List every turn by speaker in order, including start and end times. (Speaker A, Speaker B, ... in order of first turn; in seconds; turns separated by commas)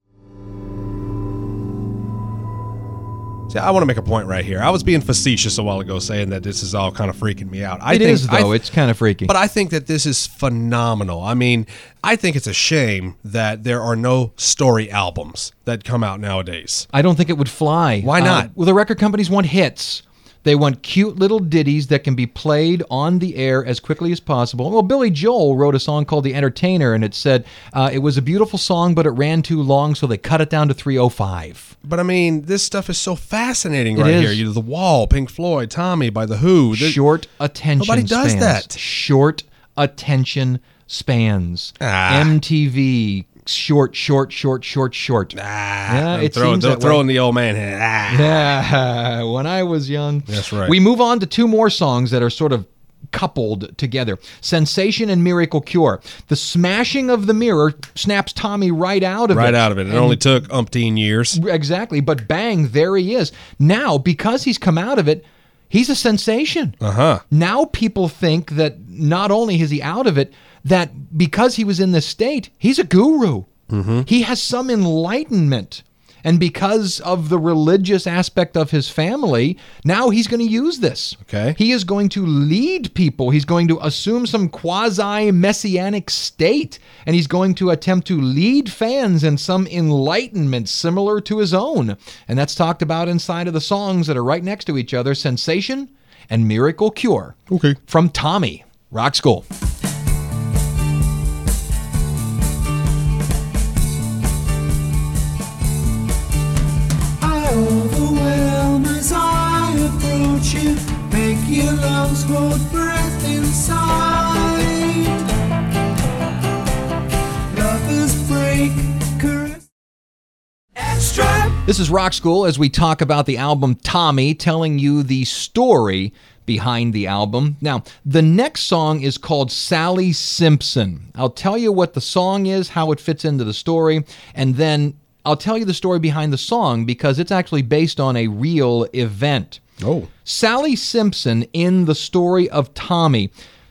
Speaker A: 3.5-8.6, Speaker B: 7.9-9.3, Speaker A: 9.3-16.9, Speaker B: 16.9-31.7, Speaker A: 18.0-18.5, Speaker A: 31.8-37.0, Speaker B: 34.0-34.4, Speaker B: 36.7-45.4, Speaker A: 37.8-38.8, Speaker A: 41.8-42.4, Speaker A: 45.3-48.4, Speaker B: 45.9-47.0, Speaker B: 48.1-60.2, Speaker A: 50.3-50.8, Speaker A: 59.3-61.4, Speaker B: 61.3-66.8, Speaker A: 66.8-67.2, Speaker B: 67.3-73.5, Speaker A: 73.7-74.1, Speaker B: 74.0-99.5, Speaker A: 81.2-81.6, Speaker A: 97.5-97.8, Speaker C: 107.2-115.4, Speaker C: 117.5-119.7, Speaker C: 120.8-121.6, Speaker B: 121.6-139.6, Speaker A: 139.8-140.1, Speaker B: 140.2-143.3